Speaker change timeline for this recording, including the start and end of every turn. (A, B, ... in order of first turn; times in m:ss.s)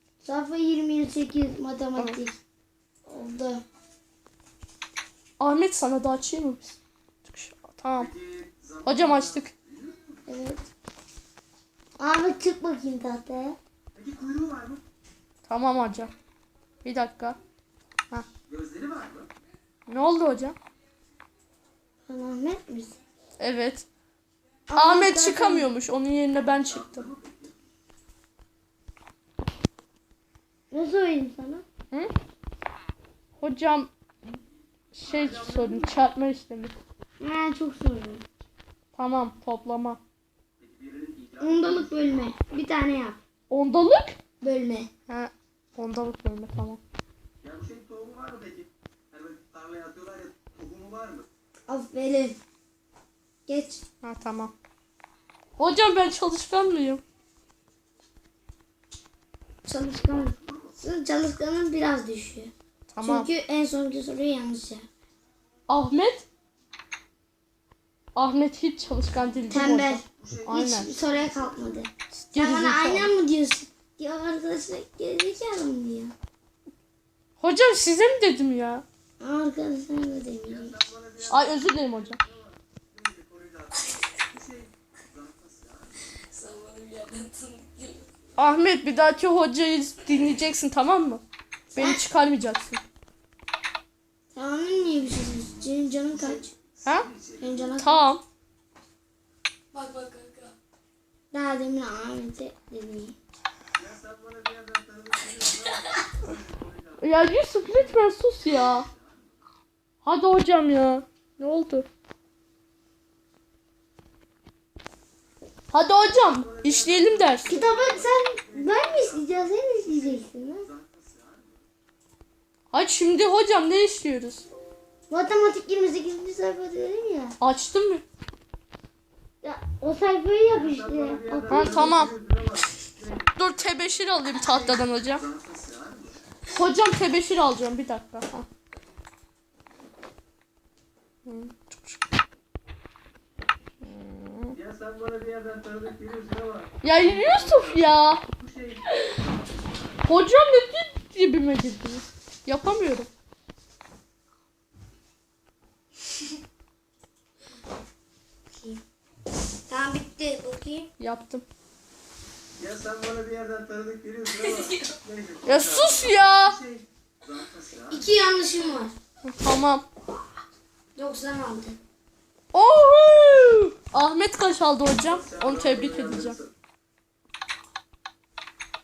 0:00.2-0:02.4 A
0:03.0-0:03.6 A
0:05.4-0:08.1 B
0:08.0-0:10.2 C
0:08.8-0:09.5 B
0:10.3-0:10.6 A
0:12.0-0:13.6 A
0:13.9-0:14.8 C
0:15.5-0:16.1 B
0:16.8-0:17.4 B
0:18.5-0:19.3 C
0:19.9-0:20.6 B
0:22.1-0:23.0 A
0:23.4-0:23.9 B
0:24.7-0:25.7 A
0:24.8-0:27.0 B
0:26.6-0:27.6 C
0:30.7-0:31.6 A
0:33.4-0:33.9 B
0:34.9-0:36.7 B
0:35.0-0:35.9 C
0:37.2-0:38.2 A
0:38.9-0:40.0 B
0:40.6-0:42.0 C
0:41.4-0:43.2 A
0:43.5-0:44.2 B
0:44.4-0:44.9 A
0:45.1-0:46.8 B
0:47.4-0:51.3 C
0:51.7-0:52.4 A
0:53.5-0:53.8 A
0:54.0-0:54.5 B
0:55.6-0:57.0 B
0:59.6-1:04.8 A
1:00.2-1:00.8 C
1:02.9-1:03.3 B
1:05.7-1:06.2 B
1:08.1-1:10.9 B
1:09.5-1:16.1 A
1:10.2-1:11.9 C
1:12.2-1:13.1 B
1:17.4-1:18.8 B
1:19.2-1:20.8 A
1:20.4-1:26.0 C
1:21.3-1:22.2 B
1:26.1-1:28.1 D
1:28.4-1:31.2 B
1:31.7-1:32.8 B
1:31.7-1:32.0 A
1:34.3-1:36.5 A
1:36.1-1:37.8 C
1:37.4-1:38.0 A
1:37.8-1:38.2 B
1:39.7-1:40.6 D
1:41.3-1:43.2 A
1:43.8-1:49.4 C
1:45.6-1:46.0 D
1:47.0-1:48.8 B
1:50.0-1:51.9 B
1:55.7-1:57.6 B
1:56.1-2:01.7 C
1:57.4-2:00.7 A
2:02.7-2:04.5 B
2:05.1-2:07.4 A
2:07.4-2:08.0 B
2:09.4-2:12.0 A
2:10.5-2:13.9 C
2:11.5-2:12.1 B
2:13.4-2:15.2 B
2:14.4-2:16.2 C
2:16.5-2:18.5 B
2:21.2-2:22.0 B
2:23.8-2:24.5 B
2:24.5-2:30.1 C
2:26.8-2:28.2 B
2:30.0-2:33.1 B
2:38.5-2:38.8 A
2:39.7-2:40.9 A
2:41.0-2:41.4 B
2:42.6-2:48.1 C
2:44.3-2:44.9 D
2:45.4-2:46.5 B
2:47.9-2:48.9 A
2:49.2-2:49.8 B
2:51.0-2:51.8 A
2:52.5-2:56.3 B
2:55.0-2:56.5 C